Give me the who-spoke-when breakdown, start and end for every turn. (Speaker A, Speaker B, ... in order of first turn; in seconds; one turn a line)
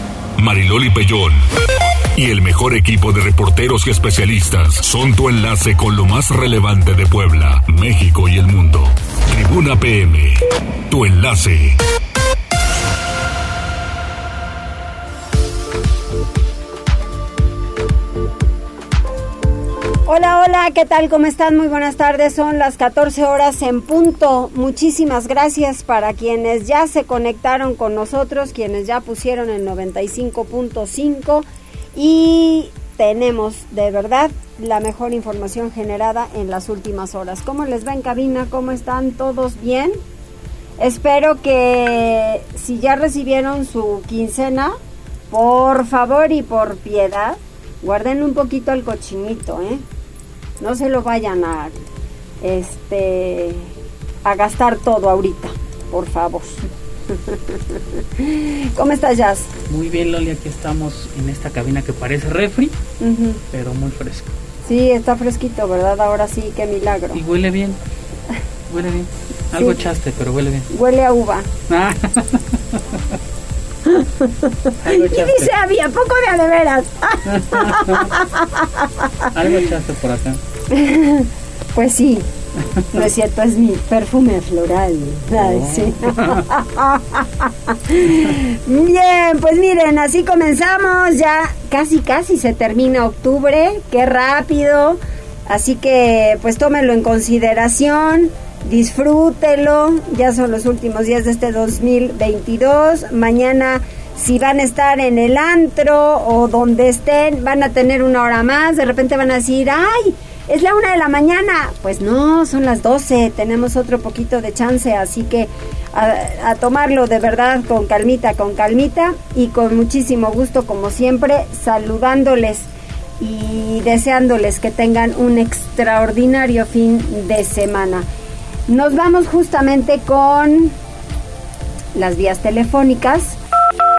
Speaker A: 0.4-1.4
Speaker A: 2.1-10.4
Speaker A: 10.9-11.8
Speaker B: 20.1-40.0
Speaker B: 40.8-44.7
Speaker B: 45.3-49.8
Speaker B: 50.6-51.7
Speaker B: 52.4-53.7
Speaker B: 54.2-59.5
Speaker C: 59.7-62.7
Speaker B: 63.0-63.4
Speaker C: 63.5-64.3
Speaker B: 64.7-67.2
Speaker C: 67.1-67.8
Speaker C: 68.7-70.7
Speaker B: 70.7-71.5
Speaker C: 71.7-72.4
Speaker B: 73.8-79.3
Speaker C: 74.8-75.5
Speaker C: 77.3-78.1
Speaker C: 79.3-80.4
Speaker B: 80.7-82.2
Speaker B: 82.9-122.7
Speaker C: 85.4-86.4
Speaker B: 123.2-128.1
Speaker B: 128.7-130.7
Speaker B: 131.9-133.4